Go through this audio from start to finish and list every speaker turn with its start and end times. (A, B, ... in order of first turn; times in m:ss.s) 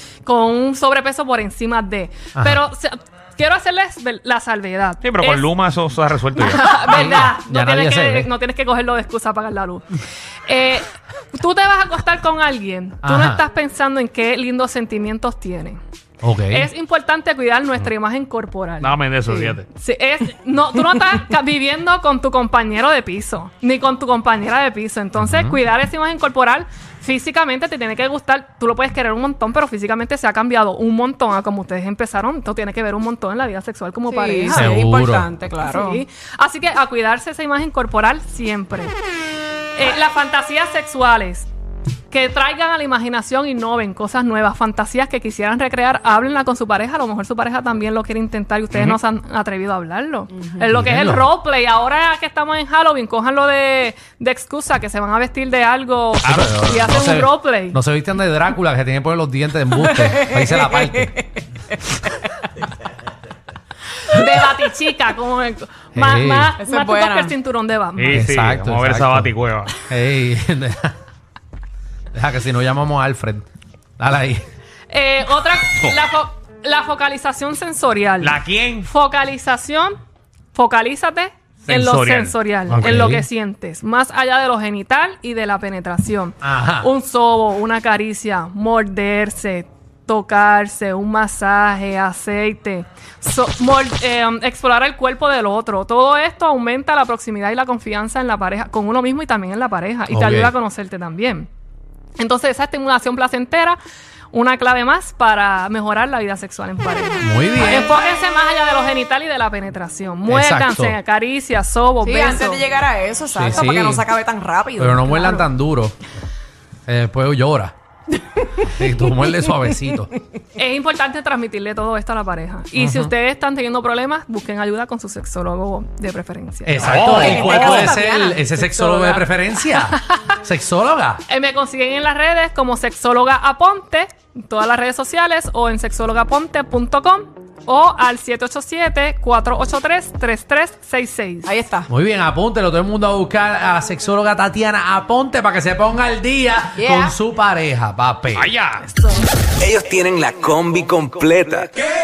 0:00.2-0:05.5 A
0:02.4-0:02.6 B
0:05.0-0:07.0 C
0:06.4-0:09.9 A
0:06.9-0:08.3 B
0:10.5-0:15.8 A
0:13.0-0:13.4 B
0:16.2-0:16.7 B
0:16.5-0:34.7 A
0:18.8-0:19.7 C
0:25.2-0:25.6 B
0:34.1-0:36.0 D
0:34.5-0:35.3 B
0:35.6-0:39.0 A
0:39.8-0:41.5 A
0:42.1-0:57.8 A
0:48.7-0:49.0 C
0:50.4-0:50.6 D
0:50.7-0:51.3 B
0:56.2-0:56.6 C
0:56.2-1:01.2 B
0:59.8-1:01.2 D
1:04.1-1:08.3 A
1:06.0-1:06.5 B
1:06.6-1:07.3 D
1:08.0-1:09.8 C
1:08.1-1:11.0 B
1:12.1-1:13.5 B
1:14.0-1:14.5 B
1:14.9-1:20.0 A
1:18.2-1:18.9 C
1:20.5-1:41.5 A
1:21.6-1:22.4 C
1:22.7-1:23.3 B
1:26.4-1:26.9 B
1:40.1-1:40.5 B
1:42.2-1:43.8 A
1:44.3-1:52.6 A
1:47.2-1:47.9 B
1:50.3-1:51.0 B
1:52.0-1:55.0 D
1:53.3-1:54.1 B
1:54.8-1:56.0 B
1:55.1-1:55.4 A
1:56.9-1:57.7 B
1:58.6-2:00.1 B
2:00.6-2:06.9 A
2:02.8-2:03.1 B
2:06.6-2:11.2 B
2:06.8-2:08.0 C
2:07.2-2:09.1 D
2:11.3-2:21.5 A
2:21.5-2:21.9 D
2:21.9-2:28.5 B
2:26.8-2:27.1 D
2:28.3-2:28.9 C
2:29.6-2:31.7 E